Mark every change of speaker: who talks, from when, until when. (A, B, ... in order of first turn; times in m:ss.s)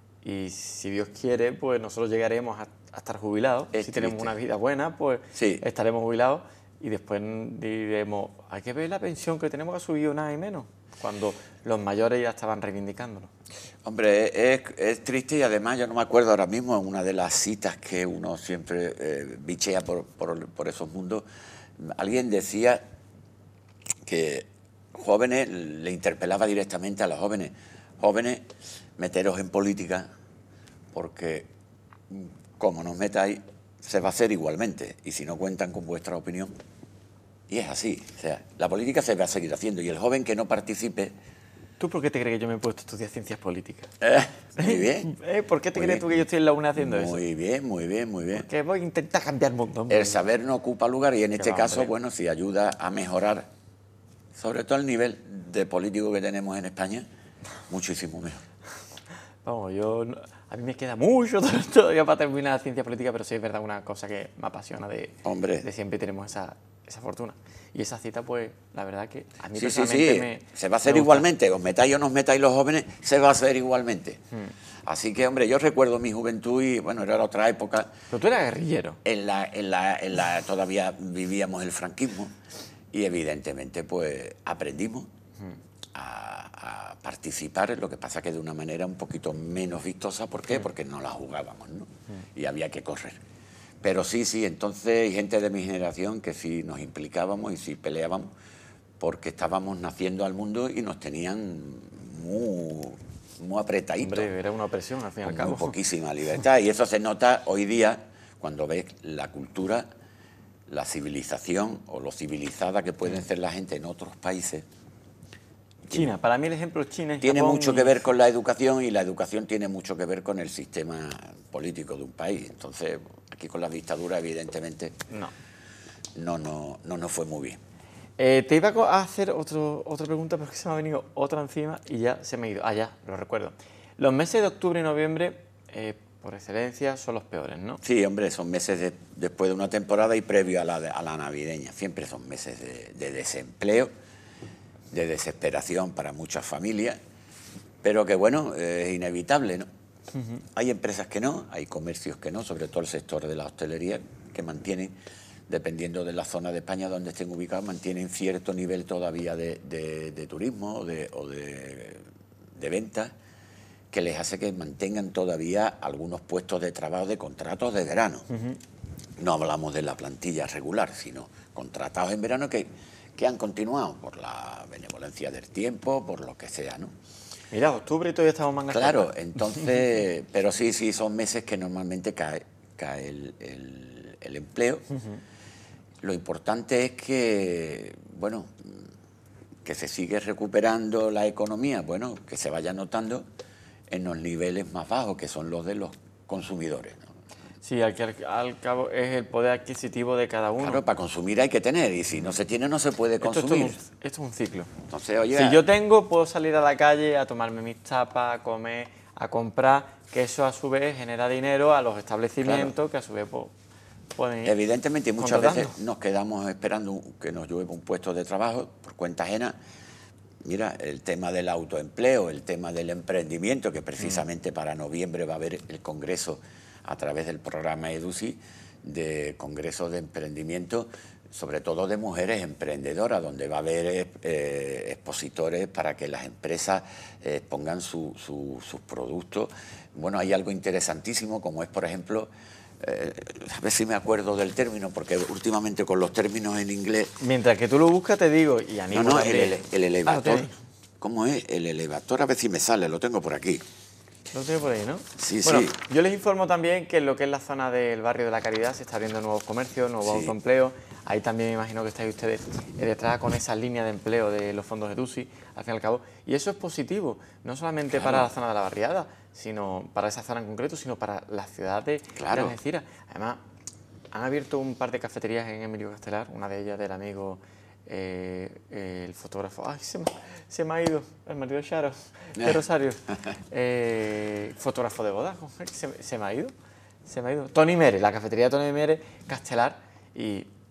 0:00.2-0:13.3 A
0:03.7-0:04.4 B
0:05.4-0:05.6 B
0:13.8-0:21.3 B
0:21.8-0:22.8 B
0:24.1-0:30.1 B
0:30.9-0:31.5 B
0:32.1-0:36.5 B
0:37.5-0:41.1 B
0:41.8-0:43.9 A
0:44.0-0:45.1 B
0:44.6-0:47.2 A
0:45.8-0:48.5 B
0:48.3-0:50.2 A
0:49.9-0:53.5 B
0:51.4-0:51.9 A
0:54.4-0:57.1 B
0:57.7-0:58.4 B
0:59.4-1:11.3 A
1:05.2-1:05.7 B
1:09.6-1:14.2 B
1:14.9-1:17.9 B
1:18.1-1:19.0 A
1:19.0-1:22.3 B
1:22.9-1:25.1 B
1:25.9-1:33.2 B
1:33.8-1:38.3 B
1:39.0-1:44.3 B
1:44.0-1:45.8 A
1:45.2-1:49.9 B
1:50.7-1:54.6 B
1:55.9-1:56.2 B
1:55.9-1:58.0 A
1:57.2-2:05.0 B
2:06.2-2:07.6 B
2:08.2-2:17.8 A
2:17.8-2:23.9 B
2:24.9-2:27.0 B
2:27.8-2:29.7 B
2:30.2-2:30.4 A
2:30.6-2:35.0 B
2:35.5-2:42.0 B
2:42.6-2:43.1 B
2:43.9-2:48.3 B
2:48.3-2:48.6 A
2:49.2-2:56.9 B
2:57.5-2:59.6 A
2:58.7-3:04.8 B
3:04.9-3:05.2 A
3:06.0-3:08.8 B
3:09.6-3:13.3 B
3:13.9-3:17.0 B
3:17.6-3:20.8 A
3:20.6-3:23.8 B
3:23.2-3:24.7 A
3:24.9-3:25.6 B
3:25.3-3:33.5 A
3:32.4-3:32.7 B
3:34.2-3:34.5 A
3:34.4-3:39.6 B
3:35.2-3:35.8 A
3:40.4-4:07.1 B
4:07.2-4:10.5 A
4:08.9-4:10.5 B
4:11.0-4:13.6 B
4:14.3-4:33.4 A
4:15.2-4:15.8 B
4:20.0-4:20.3 B
4:27.9-4:28.3 B
4:32.2-4:32.6 B
4:34.1-4:43.0 A
4:43.5-4:46.5 A
4:47.1-4:50.5 A